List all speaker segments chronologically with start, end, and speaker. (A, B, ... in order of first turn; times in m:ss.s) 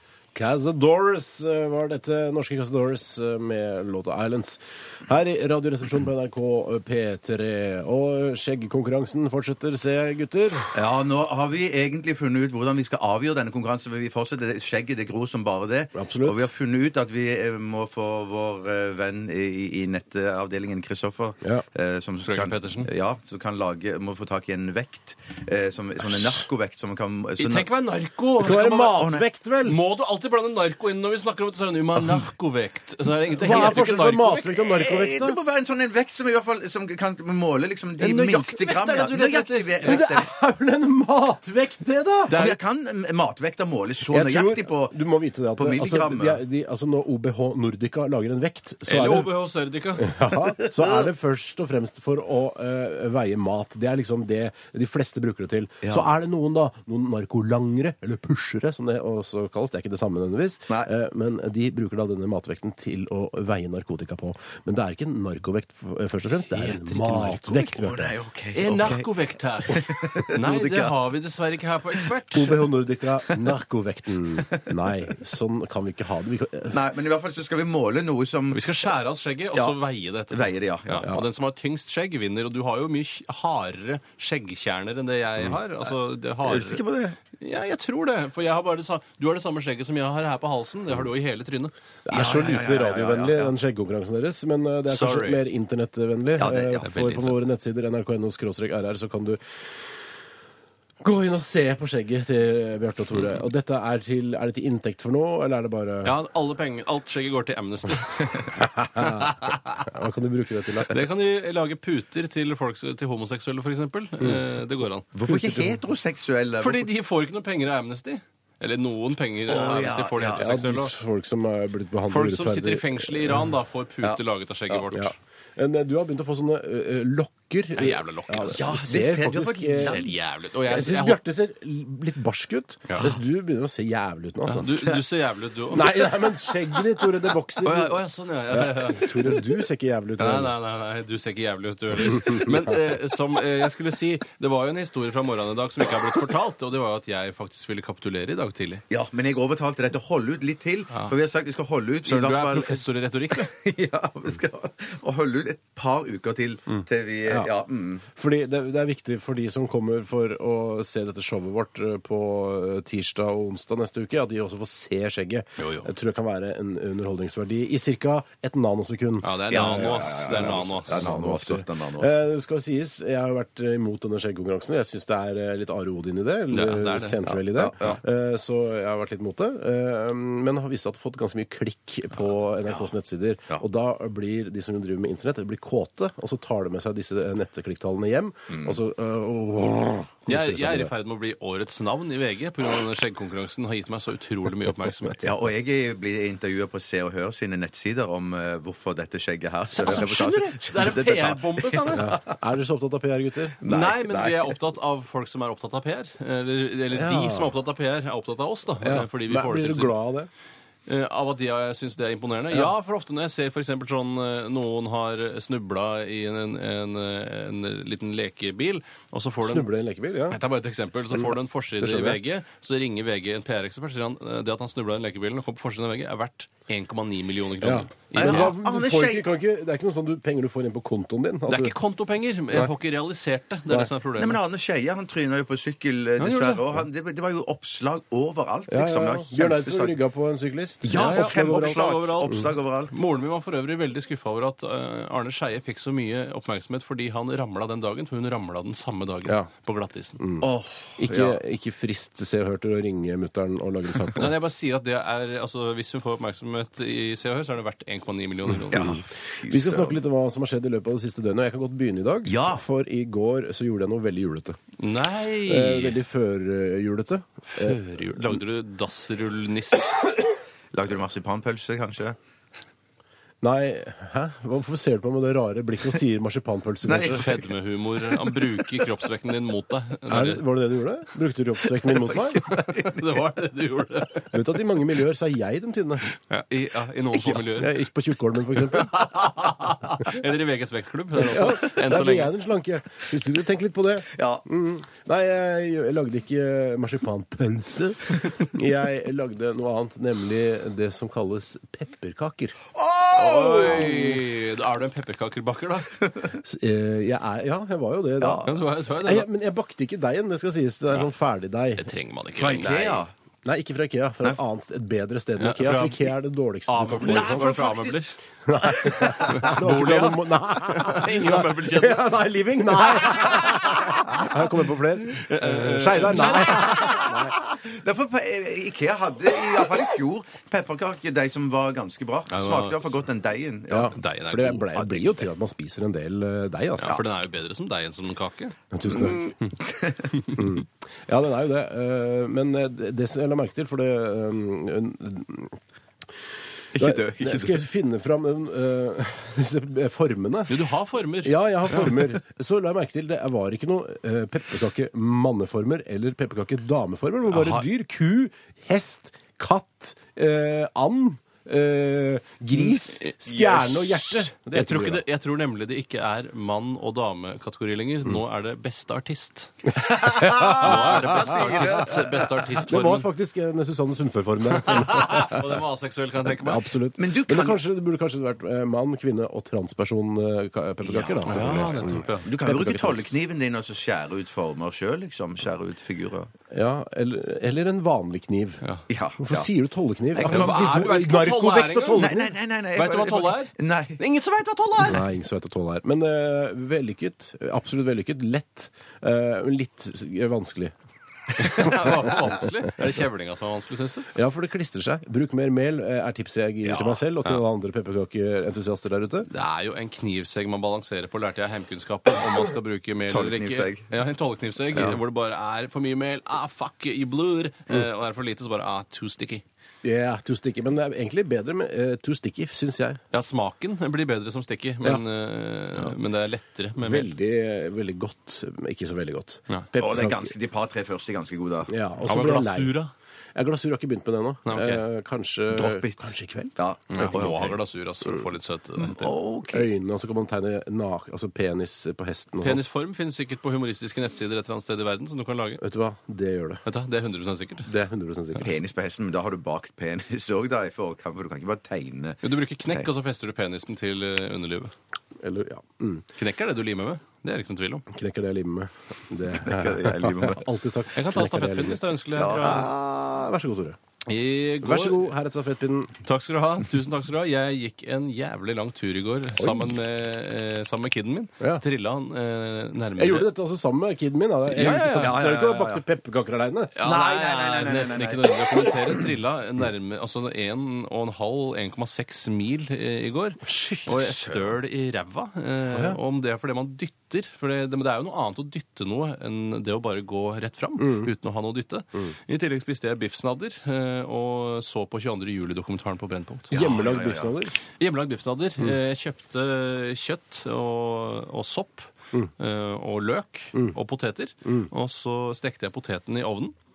0:00.3-0:10.7 A
0:10.7-0:27.7 B
0:15.9-0:16.5 A
0:22.2-0:22.9 C
0:27.4-0:29.0 C
0:28.4-0:29.8 A
0:28.8-0:29.2 B
0:29.6-0:34.5 C
0:33.3-0:35.4 A
0:34.7-0:40.3 B
0:38.0-0:40.0 C
0:39.8-0:42.4 A
0:42.3-0:42.6 C
0:42.3-0:45.0 B
0:44.1-0:49.3 A
0:45.6-0:46.4 B
0:48.8-0:50.2 C
0:50.0-1:08.2 A
0:55.8-0:56.1 B
1:06.5-1:07.7 C
1:07.7-1:09.1 B
1:08.5-1:12.6 C
1:09.7-1:10.9 B
1:12.3-1:16.8 A
1:16.7-1:18.6 B
1:18.5-1:31.7 C
1:20.3-1:21.1 B
1:26.4-1:27.2 B
1:32.0-1:39.9 A
1:32.1-1:33.5 B
1:34.9-1:35.4 C
1:36.4-1:36.8 B
1:36.8-1:37.4 C
1:41.0-1:46.2 A
1:46.0-1:49.8 C
1:48.6-1:51.0 A
1:50.9-1:55.1 C
1:55.1-1:56.9 B
1:55.3-1:55.8 A
1:56.6-2:00.9 C
1:59.5-2:00.5 B
2:00.4-2:03.5 A
2:02.1-2:05.1 C
2:04.0-2:04.8 B
2:04.9-2:10.1 A
2:07.8-2:08.8 C
2:08.5-2:10.0 B
2:09.8-2:11.2 C
2:10.6-2:14.9 A
2:12.9-2:13.2 C
2:14.4-2:16.1 C
2:15.7-2:20.5 A
2:17.6-2:19.4 C
2:20.2-2:28.8 C
2:22.1-2:22.8 A
2:28.9-2:38.0 B
2:32.0-2:33.5 C
2:38.2-3:10.9 A
2:45.6-2:45.9 C
2:49.2-2:51.1 C
2:49.5-2:52.2 B
2:56.5-2:57.2 C
2:57.5-2:58.0 B
3:08.5-3:08.8 B
3:10.3-3:15.3 C
3:15.2-3:22.1 B
3:19.7-3:22.2 C
3:21.9-3:23.6 A
3:23.6-3:24.6 B
3:23.6-3:30.0 C
3:26.9-3:27.5 A
3:28.8-3:30.3 A
3:30.9-3:39.7 C
3:39.4-3:40.4 A
3:40.3-3:48.6 C
3:41.1-3:42.2 A
3:47.6-3:51.8 A
3:48.1-3:49.3 B
3:51.5-3:54.4 C
3:54.2-4:00.0 B
3:56.2-3:56.8 C
3:58.7-4:02.4 A
4:00.8-4:02.9 B
4:00.9-4:10.2 C
4:10.2-4:14.3 A
4:10.4-4:11.4 B
4:14.1-4:19.0 C
4:18.7-4:20.0 B
4:18.8-4:24.6 A
4:22.2-4:22.6 B
4:24.8-4:26.0 C
4:25.4-4:27.8 A
4:27.5-4:29.9 C
4:30.7-4:32.2 B
4:33.4-4:37.3 A
4:36.8-4:37.5 B
4:37.0-4:40.4 C
4:38.1-4:38.7 B
4:40.1-4:42.5 A
4:41.9-4:43.1 B
4:42.4-4:44.4 C
4:44.3-4:46.0 A
4:46.1-4:47.8 C
4:47.4-4:49.3 A
4:48.6-4:52.3 C
4:51.2-5:02.6 A
4:54.1-4:54.4 B
5:02.7-5:04.1 B
5:03.1-5:06.0 C
5:03.8-5:04.2 A
5:06.4-5:11.8 A
5:08.2-5:08.5 B
5:08.4-5:09.3 C
5:11.8-5:13.0 C
5:12.4-5:13.1 B
5:13.4-5:17.6 A
5:15.4-5:16.1 C
5:16.7-5:18.2 C
5:17.0-5:18.0 B
5:18.4-5:27.4 A
5:18.8-5:22.1 C
5:19.3-5:19.5 B
5:22.8-5:24.2 C
5:25.0-5:27.2 C
5:26.4-5:34.0 B
5:32.3-5:32.9 C
5:33.7-5:37.0 A
5:33.9-5:34.7 C
5:34.7-5:35.2 B
5:36.8-5:38.6 C
5:38.7-5:39.3 A
5:38.9-5:40.3 B
5:40.3-5:45.6 A
5:46.7-5:47.6 B
5:46.7-5:50.6 A
5:50.5-5:52.1 C
5:51.2-6:05.0 A
5:57.3-5:57.7 C
6:03.2-6:03.8 B
6:04.5-6:13.1 C
6:10.0-6:12.0 A
6:10.2-6:12.2 B
6:12.6-6:15.6 A
6:14.6-6:16.7 C
6:16.2-6:23.2 A
6:17.0-6:17.6 B
6:20.8-6:26.3 B
6:21.2-6:22.3 C
6:26.5-6:28.6 A
6:28.9-6:29.5 B
6:29.2-6:32.3 A
6:30.1-6:30.9 B
6:30.2-6:32.1 C
6:32.0-6:34.0 B
6:32.7-6:35.0 C
6:34.8-6:40.7 A
6:41.4-6:44.1 C
6:41.5-6:42.4 A
6:44.1-6:49.3 A
6:46.6-6:47.0 B
6:49.3-6:59.4 C
6:53.1-6:53.9 B
6:59.8-7:03.0 A
7:03.1-7:07.1 C
7:06.8-7:10.3 A
7:09.7-7:11.7 B
7:11.7-7:12.8 A
7:12.0-7:12.9 C
7:13.3-7:16.5 A
7:14.4-7:14.8 C
7:15.5-7:17.6 B
7:16.9-7:19.1 C
7:18.8-7:19.7 B
7:19.5-7:22.6 A
7:22.4-7:25.6 C
7:25.6-7:26.6 A
7:26.6-7:27.7 C
7:27.6-7:28.6 A
7:28.4-7:32.9 B
7:32.2-7:34.7 C
7:35.2-7:36.0 A
7:36.2-7:37.8 C
7:37.9-7:43.8 A
7:39.3-7:40.4 B
7:40.9-7:42.7 C
7:42.1-7:42.7 B
7:44.1-7:45.1 C
7:44.6-7:45.9 A
7:46.0-7:53.3 C
7:49.4-7:49.7 A
7:53.0-7:56.7 A
7:54.5-7:55.2 C
7:54.6-7:55.8 B
7:56.7-8:16.7 C
7:56.8-7:58.9 B
8:03.5-8:03.9 A
8:04.1-8:04.4 B
8:10.8-8:11.1 A
8:16.5-8:17.5 A
8:16.5-8:17.4 B
8:17.8-8:26.6 C